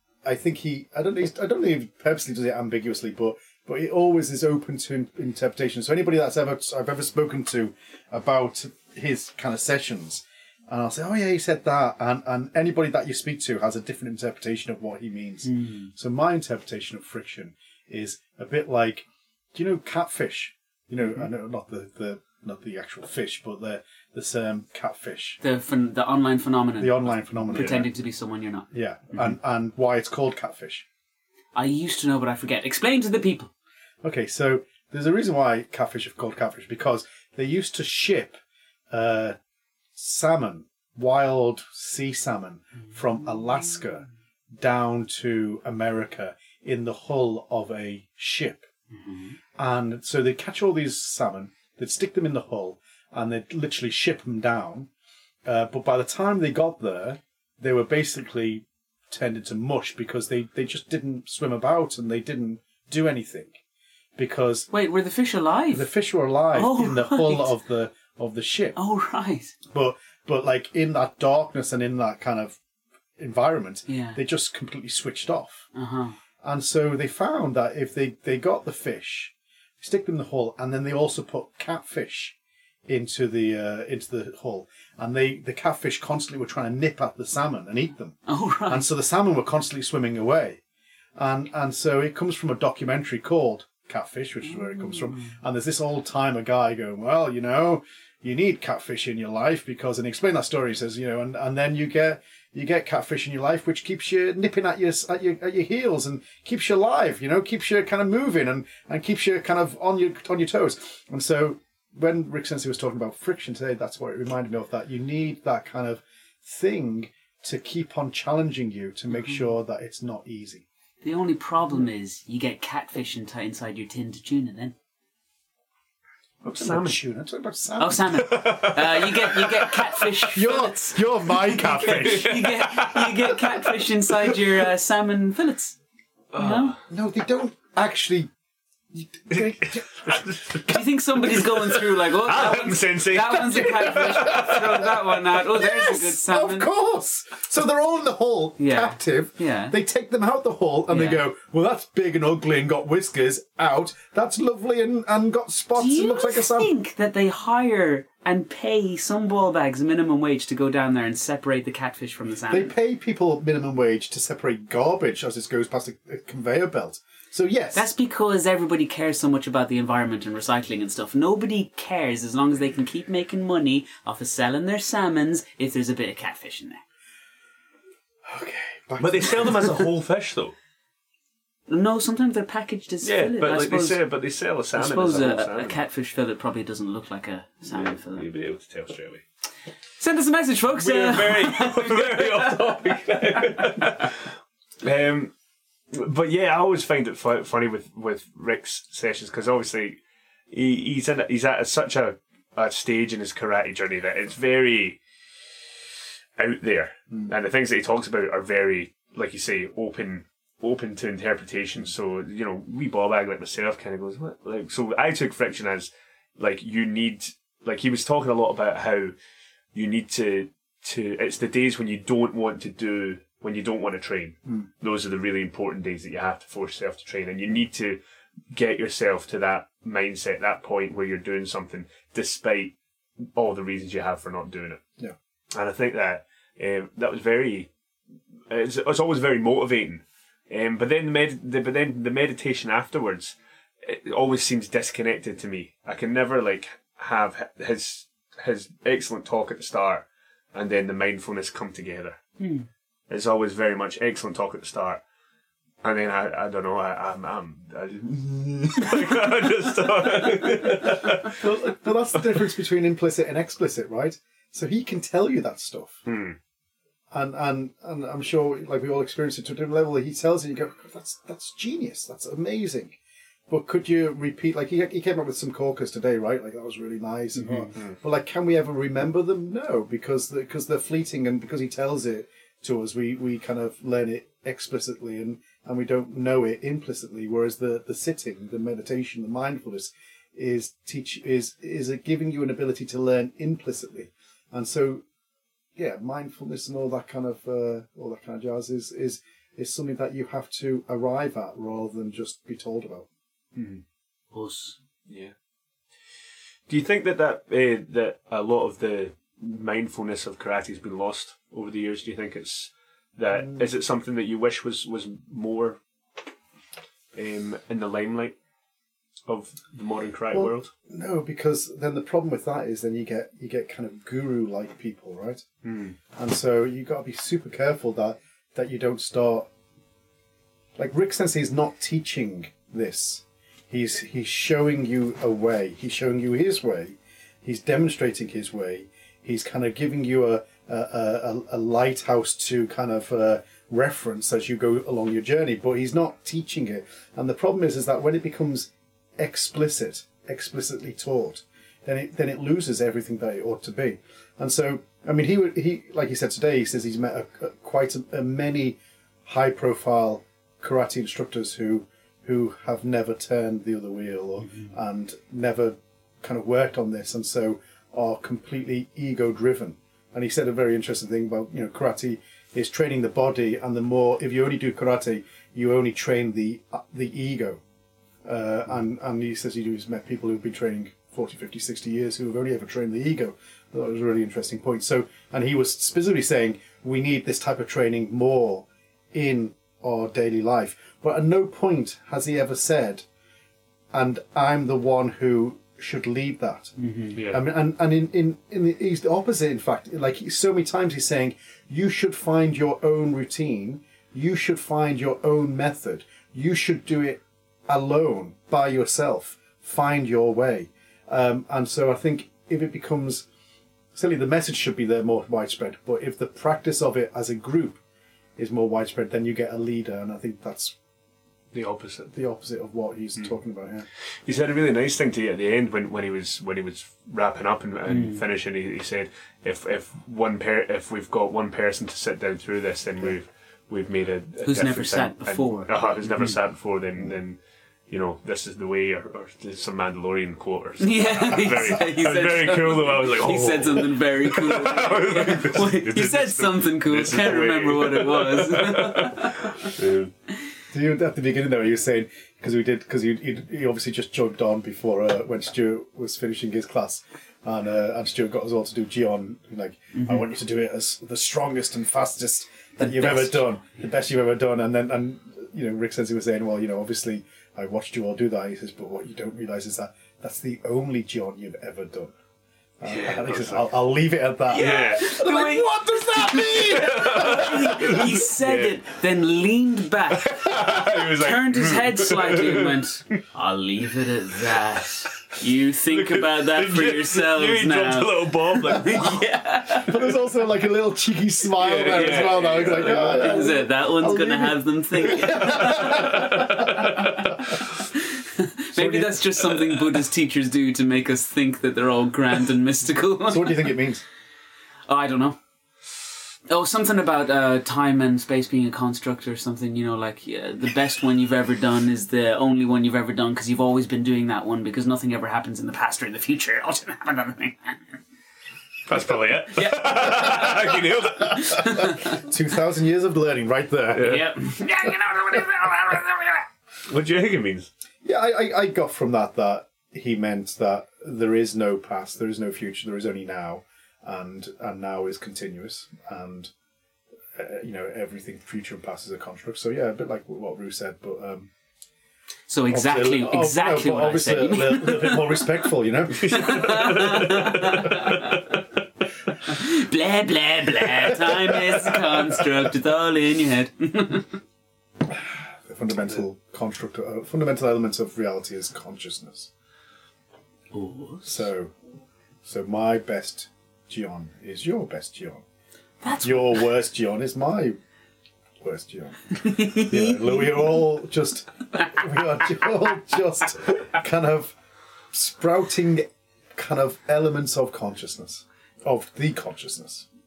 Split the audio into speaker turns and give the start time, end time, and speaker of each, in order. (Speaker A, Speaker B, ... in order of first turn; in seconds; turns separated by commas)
Speaker A: 0.2-25.4, Speaker B: 15.4-15.9, Speaker B: 25.4-28.7, Speaker A: 26.8-27.9, Speaker C: 27.5-27.9, Speaker A: 28.7-30.9, Speaker B: 31.6-33.5, Speaker A: 34.0-38.4, Speaker A: 38.9-39.4, Speaker A: 40.0-44.1, Speaker A: 44.6-48.7, Speaker A: 49.6-54.9, Speaker A: 55.5-63.6, Speaker A: 64.2-64.7, Speaker B: 64.7-65.9, Speaker A: 65.7-68.8, Speaker B: 66.5-67.5, Speaker B: 68.8-69.5, Speaker A: 69.7-72.6, Speaker A: 73.2-75.7, Speaker B: 73.9-74.2, Speaker B: 75.8-76.2, Speaker A: 76.4-82.4, Speaker A: 82.9-90.6, Speaker B: 88.3-88.9, Speaker A: 91.2-120.7, Speaker B: 121.0-124.7, Speaker C: 126.4-127.0, Speaker A: 126.6-128.3, Speaker B: 127.8-135.8, Speaker C: 128.2-130.4, Speaker A: 130.3-132.4, Speaker C: 131.4-134.4, Speaker C: 136.3-136.8, Speaker B: 136.4-136.8, Speaker A: 136.9-138.3, Speaker A: 138.9-140.8, Speaker C: 139.3-140.7, Speaker B: 140.7-146.7, Speaker C: 141.3-144.9, Speaker A: 143.6-156.7, Speaker B: 148.6-149.8, Speaker B: 150.9-151.2, Speaker B: 155.8-162.7, Speaker A: 162.5-167.9, Speaker B: 167.7-176.8, Speaker A: 178.3-179.9, Speaker C: 179.0-180.5, Speaker B: 181.7-184.0, Speaker C: 183.0-185.8, Speaker B: 184.7-188.3, Speaker C: 187.7-189.2, Speaker B: 190.0-193.7, Speaker C: 190.8-195.3, Speaker C: 195.9-200.0, Speaker C: 200.5-205.0, Speaker C: 206.4-219.1, Speaker C: 219.7-228.0, Speaker C: 228.5-232.8, Speaker C: 233.3-234.8, Speaker C: 235.5-237.7, Speaker C: 238.5-252.2, Speaker B: 252.4-252.7, Speaker C: 253.1-255.0, Speaker C: 255.8-261.4, Speaker A: 261.3-266.0, Speaker C: 266.1-266.4, Speaker A: 267.1-273.0, Speaker A: 273.5-295.0, Speaker C: 277.5-278.0, Speaker A: 295.8-303.1, Speaker C: 303.6-303.8, Speaker B: 304.3-304.8, Speaker C: 305.1-305.3, Speaker C: 306.7-315.8, Speaker A: 313.4-313.7, Speaker C: 317.1-318.4, Speaker C: 319.3-320.7, Speaker A: 320.3-325.5, Speaker C: 325.6-326.0, Speaker A: 326.1-329.5, Speaker A: 330.8-377.6, Speaker A: 378.2-393.1, Speaker A: 393.9-396.7, Speaker B: 396.8-397.2, Speaker C: 397.1-397.4, Speaker A: 397.3-413.3, Speaker A: 413.9-417.8, Speaker A: 418.4-420.8, Speaker C: 421.5-422.1, Speaker A: 422.1-423.9, Speaker C: 424.0-450.1, Speaker B: 427.9-428.2, Speaker B: 434.4-436.4, Speaker B: 440.8-449.7, Speaker A: 450.7-472.1, Speaker B: 460.0-460.2, Speaker B: 462.8-463.4, Speaker A: 472.8-478.0, Speaker C: 472.9-473.7, Speaker C: 474.5-475.2, Speaker B: 474.5-490.0, Speaker C: 476.5-478.8, Speaker C: 480.2-483.2, Speaker C: 485.9-489.2, Speaker A: 489.7-497.1, Speaker C: 491.6-493.4, Speaker B: 492.2-503.8, Speaker C: 495.7-497.1, Speaker A: 498.8-499.2, Speaker A: 503.3-504.0, Speaker B: 504.9-505.4, Speaker B: 506.5-517.8, Speaker C: 518.9-521.9, Speaker B: 519.5-522.1, Speaker A: 521.4-524.3, Speaker C: 524.0-524.3, Speaker B: 524.0-526.4, Speaker C: 526.9-527.7, Speaker A: 528.0-536.5, Speaker A: 537.3-541.5, Speaker B: 542.5-545.4, Speaker A: 542.7-546.8, Speaker C: 546.1-548.4, Speaker B: 546.3-548.5, Speaker B: 549.5-554.4, Speaker A: 555.1-559.5, Speaker B: 560.7-561.4, Speaker A: 561.3-561.8, Speaker A: 562.4-565.4, Speaker B: 566.0-566.6, Speaker A: 566.2-567.8, Speaker A: 568.6-574.5, Speaker B: 569.4-570.8, Speaker A: 575.1-580.1